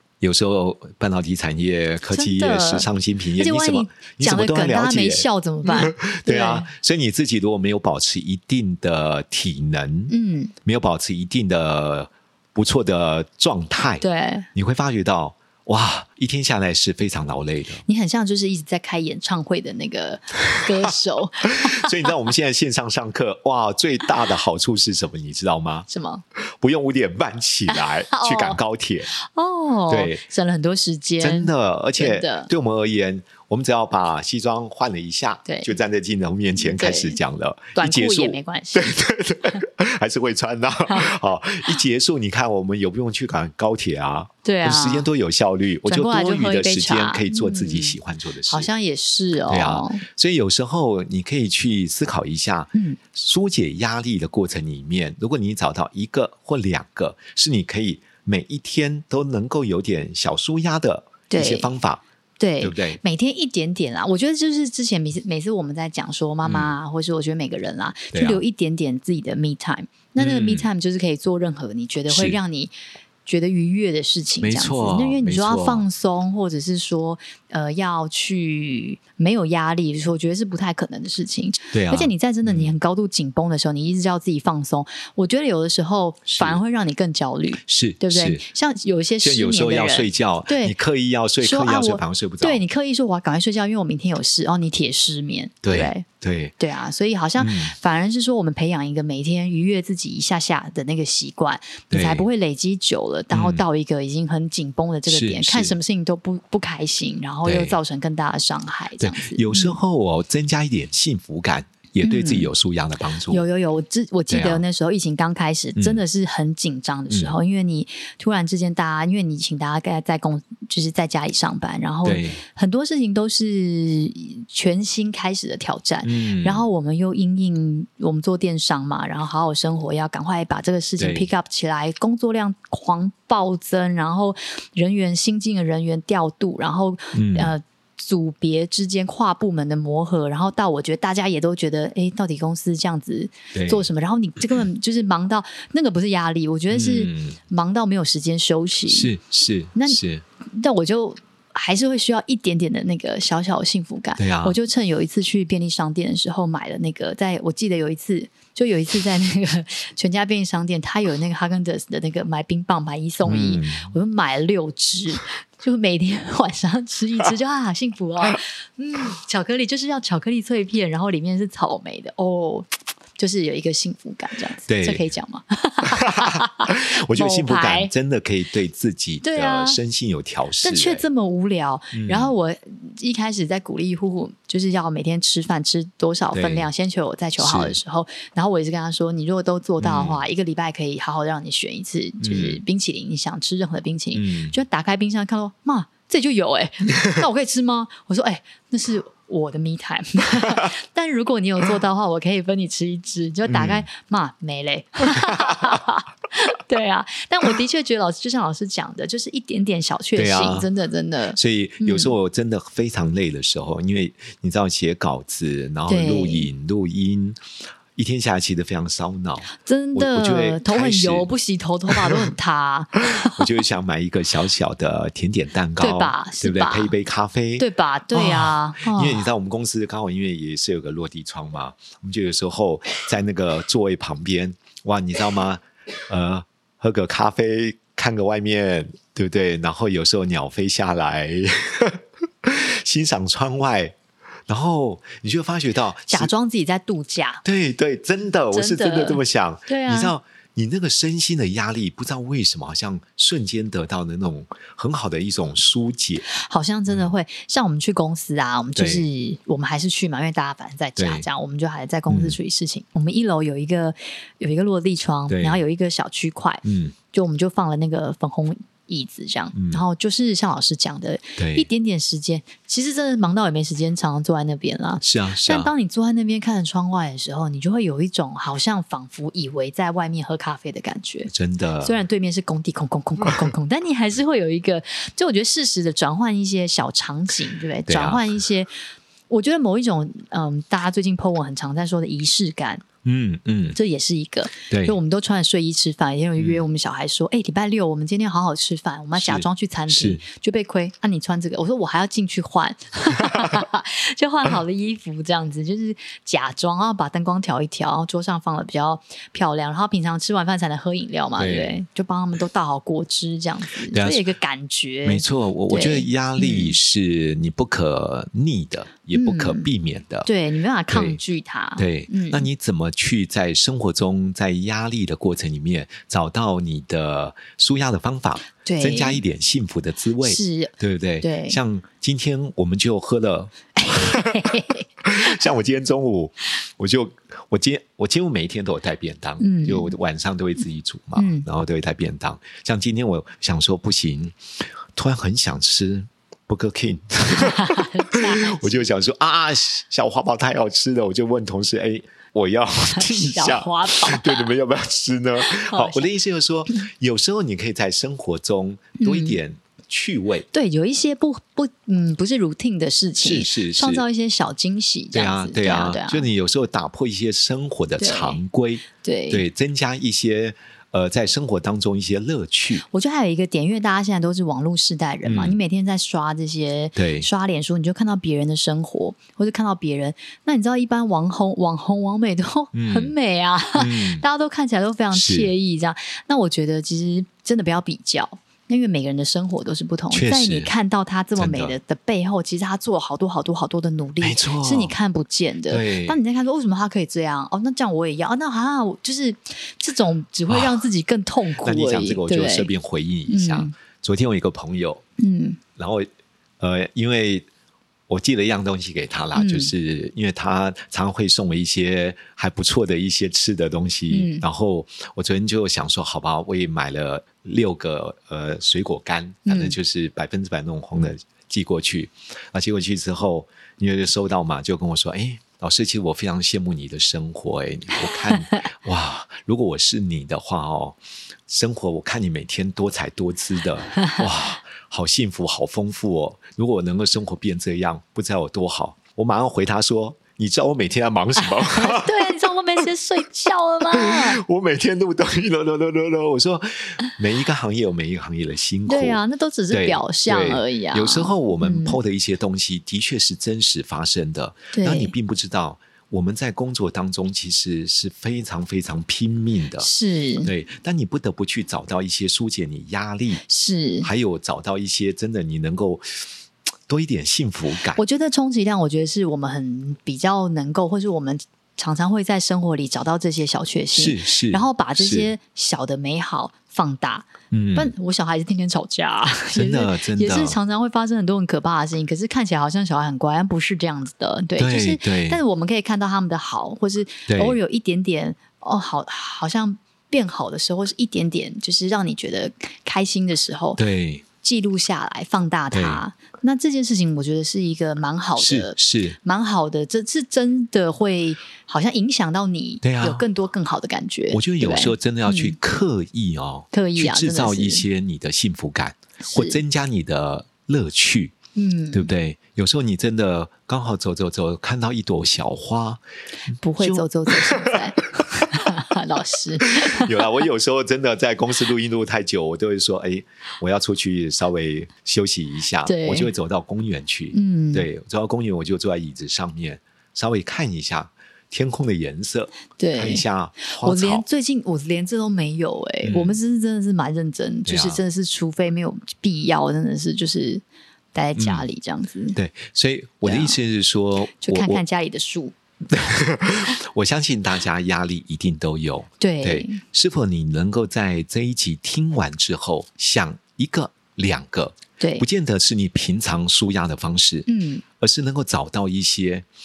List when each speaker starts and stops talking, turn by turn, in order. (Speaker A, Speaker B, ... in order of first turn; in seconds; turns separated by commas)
Speaker A: 0.2-10.1, Speaker B: 2.1-6.7, Speaker B: 10.1-10.5, Speaker A: 10.7-14.0, Speaker B: 14.0-14.5, Speaker A: 14.6-17.8, Speaker B: 17.9-22.1, Speaker A: 21.4-29.1, Speaker B: 25.9-26.2, Speaker B: 27.7-28.6, Speaker B: 29.1-32.5, Speaker A: 29.9-30.2, Speaker A: 31.2-48.7, Speaker B: 35.5-35.7, Speaker B: 36.6-37.2, Speaker B: 37.8-38.9, Speaker B: 44.4-45.1, Speaker B: 45.9-48.0, Speaker B: 48.5-50.0, Speaker A: 49.5-62.0, Speaker B: 52.7-53.0, Speaker B: 61.3-61.7, Speaker B: 62.4-72.7, Speaker A: 62.6-63.0, Speaker A: 66.4-66.7, Speaker A: 68.1-68.4, Speaker A: 70.2-70.7, Speaker A: 72.1-72.4, Speaker B: 73.3-90.8, Speaker A: 74.4-75.8, Speaker A: 81.7-82.7, Speaker A: 86.3-86.6, Speaker A: 87.7-88.5, Speaker A: 89.2-92.6, Speaker B: 91.4-96.0, Speaker A: 95.6-96.5, Speaker B: 96.6-109.8, Speaker A: 97.4-97.8, Speaker A: 101.9-102.3, Speaker A: 103.3-103.7, Speaker A: 105.1-105.8, Speaker A: 107.5-107.8, Speaker A: 109.0-113.4, Speaker B: 112.0-112.5, Speaker B: 113.3-149.1, Speaker A: 114.3-114.6, Speaker A: 115.8-116.0, Speaker A: 117.1-117.4, Speaker A: 122.0-122.4, Speaker A: 126.0-126.7, Speaker A: 131.0-131.3, Speaker A: 137.1-137.5, Speaker A: 143.5-143.9, Speaker A: 146.7-147.4, Speaker A: 148.9-150.2, Speaker B: 149.8-177.9, Speaker A: 154.2-154.6, Speaker A: 163.2-163.9, Speaker A: 174.7-175.1, Speaker A: 175.8-181.0, Speaker B: 179.2-179.8, Speaker B: 180.6-212.2, Speaker A: 181.9-182.3, Speaker A: 186.3-186.7, Speaker A: 187.4-187.8, Speaker A: 189.8-190.2, Speaker A: 192.2-192.6, Speaker A: 194.1-194.6, Speaker A: 203.5-203.9, Speaker A: 205.1-205.8, Speaker A: 210.2-210.7, Speaker A: 211.3-217.4, Speaker B: 215.9-216.5, Speaker A: 218.0-221.3, Speaker B: 219.6-223.4, Speaker A: 221.9-222.2, Speaker A: 223.2-244.0, Speaker B: 225.8-226.9, Speaker B: 227.6-229.3, Speaker A: 244.5-246.3, Speaker B: 246.1-247.4, Speaker A: 247.4-256.3, Speaker B: 248.5-250.1, Speaker B: 256.3-281.3, Speaker A: 258.8-259.1, Speaker A: 261.0-261.3, Speaker A: 262.1-262.4, Speaker A: 265.3-265.6, Speaker A: 266.6-266.9, Speaker A: 269.6-269.8, Speaker A: 271.4-271.7, Speaker A: 275.0-275.7, Speaker A: 281.3-282.0, Speaker B: 281.8-288.7, Speaker A: 287.9-288.4, Speaker B: 289.3-292.8, Speaker A: 293.0-293.8, Speaker B: 293.8-316.8, Speaker A: 294.7-295.0, Speaker A: 299.2-300.2, Speaker A: 311.4-311.8, Speaker A: 313.9-314.2, Speaker A: 315.1-320.3, Speaker B: 319.1-319.7, Speaker B: 320.2-322.5, Speaker A: 320.9-321.2, Speaker A: 321.8-344.4, Speaker B: 328.6-329.2, Speaker B: 330.2-331.6, Speaker B: 333.8-335.3, Speaker B: 339.4-340.0, Speaker B: 341.2-341.5, Speaker A: 344.9-360.5, Speaker B: 347.4-348.9, Speaker B: 352.9-354.5, Speaker B: 355.5-356.1, Speaker B: 359.0-359.4, Speaker B: 360.5-366.3, Speaker A: 363.2-364.1, Speaker A: 365.1-372.9, Speaker B: 368.0-368.4, Speaker B: 368.9-369.4, Speaker B: 372.8-402.7, Speaker A: 375.2-375.6, Speaker A: 377.0-377.3, Speaker A: 382.7-383.1, Speaker A: 383.8-384.2, Speaker A: 385.1-385.5, Speaker A: 390.1-390.7, Speaker A: 391.4-391.8, Speaker A: 394.2-394.9, Speaker A: 395.7-396.2, Speaker A: 400.5-400.8, Speaker A: 401.6-405.0, Speaker B: 403.3-403.7, Speaker B: 405.2-405.6, Speaker A: 405.8-406.1, Speaker A: 406.6-407.5, Speaker A: 408.1-442.3, Speaker B: 409.4-409.7, Speaker B: 414.1-414.5, Speaker B: 419.5-419.8, Speaker B: 441.7-444.4, Speaker A: 443.9-459.9, Speaker B: 448.9-452.0, Speaker B: 454.7-455.1, Speaker B: 459.8-460.5, Speaker A: 460.4-463.4, Speaker B: 463.4-464.1, Speaker A: 464.0-466.2, Speaker A: 466.9-468.0, Speaker B: 468.0-493.8, Speaker A: 473.9-475.3, Speaker A: 477.5-477.9, Speaker A: 479.5-480.6, Speaker A: 484.6-485.4, Speaker A: 487.3-487.6, Speaker A: 493.8-494.2, Speaker B: 494.4-505.6, Speaker A: 495.7-496.0, Speaker A: 498.4-499.2, Speaker A: 502.8-503.2, Speaker A: 504.3-511.4, Speaker B: 506.7-507.9, Speaker B: 509.2-509.6, Speaker B: 511.6-512.1, Speaker A: 511.9-516.0, Speaker B: 516.6-520.3, Speaker A: 516.8-517.8, Speaker A: 518.5-518.8, Speaker A: 519.6-534.2, Speaker B: 525.9-526.3, Speaker B: 527.3-527.9, Speaker B: 532.8-540.6, Speaker A: 536.0-536.4, Speaker A: 537.7-538.0, Speaker B: 541.1-542.4, Speaker A: 541.4-541.7, Speaker A: 542.4-544.8, Speaker B: 543.2-543.6, Speaker B: 544.4-545.5, Speaker A: 545.9-557.5, Speaker B: 549.2-549.8, Speaker B: 555.0-555.3, Speaker B: 557.5-557.8, Speaker A: 558.0-559.5